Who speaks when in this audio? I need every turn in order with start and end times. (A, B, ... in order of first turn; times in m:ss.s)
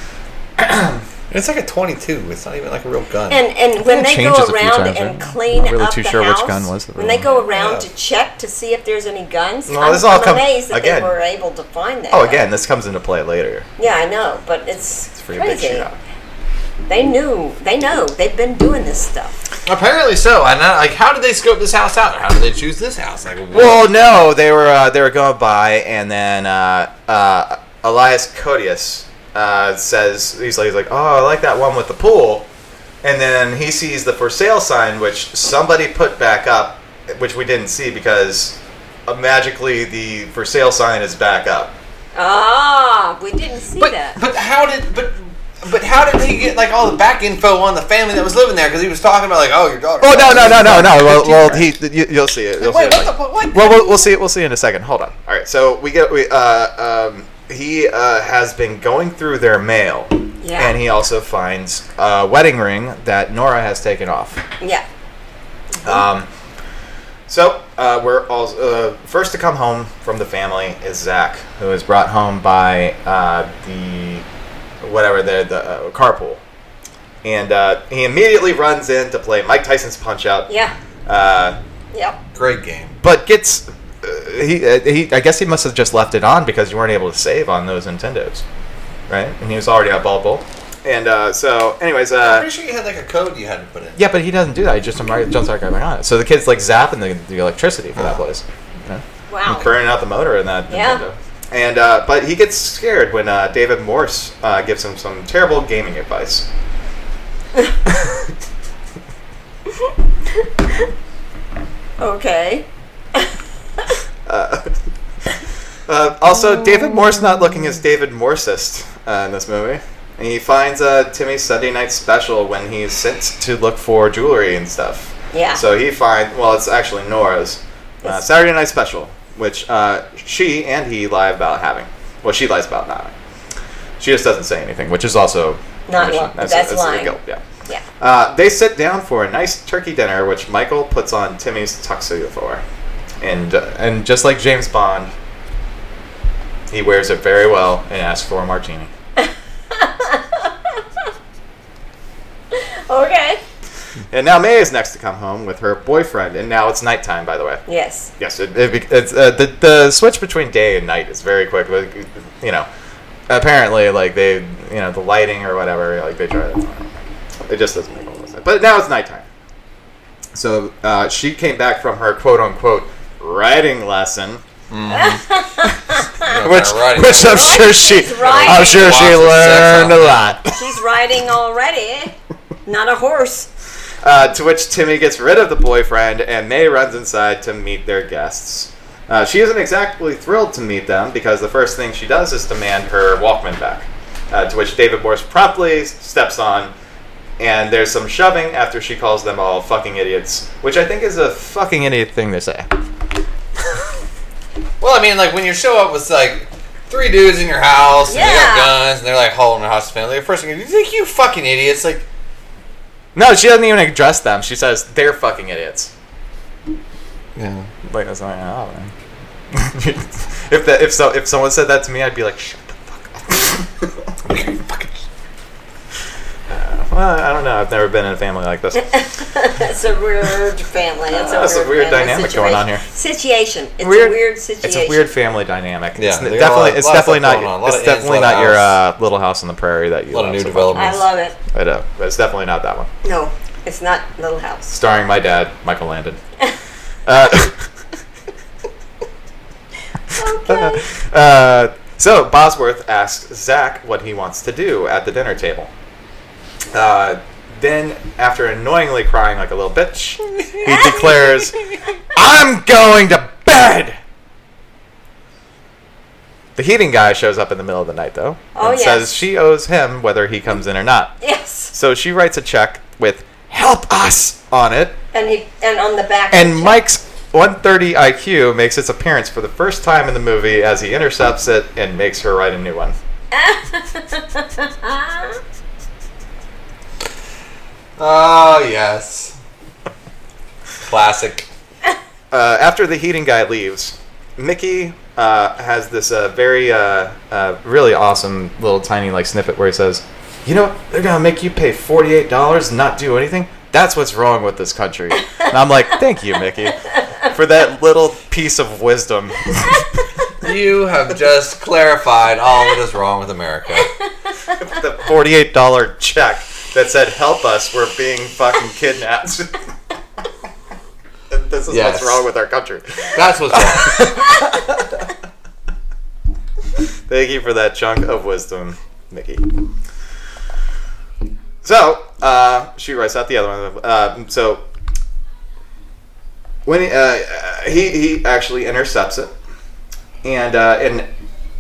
0:00.6-0:01.1 A
0:01.3-0:03.4 B
0:03.3-0:12.4 C
0:03.8-0:07.3 A
0:07.2-0:07.9 B
0:09.7-0:11.1 A
0:12.1-0:13.7 A
0:13.8-0:15.9 C
0:15.1-0:16.0 A
0:16.9-0:19.4 C
0:19.7-0:23.8 B
0:23.5-0:32.5 A
0:33.0-0:41.8 A
0:42.2-0:44.2 C
0:43.8-0:51.7 B
0:50.0-1:04.4 A
0:52.6-0:53.9 B
1:00.4-1:00.8 C
1:05.8-1:06.3 A
1:07.3-1:14.3 A
1:14.8-1:16.4 A
1:17.2-1:20.5 A
1:20.5-1:20.7 C
1:21.1-1:21.6 A
1:21.9-1:22.2 C
1:22.4-1:23.0 B
1:23.0-1:28.4 A
1:29.1-1:32.5 A
1:32.2-1:34.0 B
1:34.0-1:46.5 A
1:39.3-1:39.8 C
1:40.7-1:41.0 C
1:49.8-1:50.5 C
1:52.0-1:53.3 C
1:54.3-1:54.7 A
1:55.9-2:13.1 A
2:05.3-2:05.6 C
2:14.0-2:17.4 A
2:15.9-2:17.8 C
2:18.0-2:22.6 A
2:23.2-2:25.1 A
2:26.7-2:28.9 A
2:29.2-2:30.5 C
2:32.5-2:33.4 C
2:34.1-2:37.6 A
2:37.7-2:38.1 C
2:38.2-2:42.7 A
2:43.3-2:46.9 A
2:47.5-2:49.3 A
2:50.3-2:54.4 A
2:54.7-2:55.3 B
2:54.9-2:56.3 C
2:56.2-3:00.2 B
2:56.4-3:00.6 A
2:57.2-2:59.1 C
3:00.5-3:02.2 C
3:02.7-3:03.5 C
3:04.0-3:16.7 A
3:17.4-3:22.7 A
3:24.8-3:32.1 B
3:28.1-3:28.7 C
3:33.2-3:35.9 A
3:37.4-3:37.7 B
3:37.8-3:38.9 A
3:39.5-3:43.9 A
3:44.3-3:44.9 B
3:46.5-3:48.9 A
3:48.8-3:55.1 C
3:51.1-3:52.8 A
3:53.8-4:02.9 A
3:56.0-3:58.8 B
4:00.1-4:01.0 B
4:00.7-4:01.4 C
4:03.0-4:04.7 C
4:04.7-4:06.2 A
4:07.1-4:07.7 A
4:10.1-4:10.9 C
4:10.2-4:15.7 A
4:16.7-4:21.6 A
4:20.4-4:21.5 B
4:20.7-4:21.0 C
4:22.1-4:24.0 A
4:26.6-4:31.2 A
4:28.6-4:29.2 C
4:31.2-4:31.7 C
4:31.7-4:35.0 A
4:35.1-4:36.8 C
4:36.3-4:43.0 A
4:43.3-4:45.4 C
4:48.0-4:49.4 B
4:50.8-4:51.5 B
4:52.3-5:09.9 A
5:10.4-5:13.9 B
5:14.6-5:19.6 A
5:21.3-5:25.0 A
5:21.7-5:22.2 B
5:23.1-5:24.1 B
5:27.1-5:29.5 A
5:31.6-5:34.6 A
5:36.6-5:39.3 A
5:40.2-5:41.1 A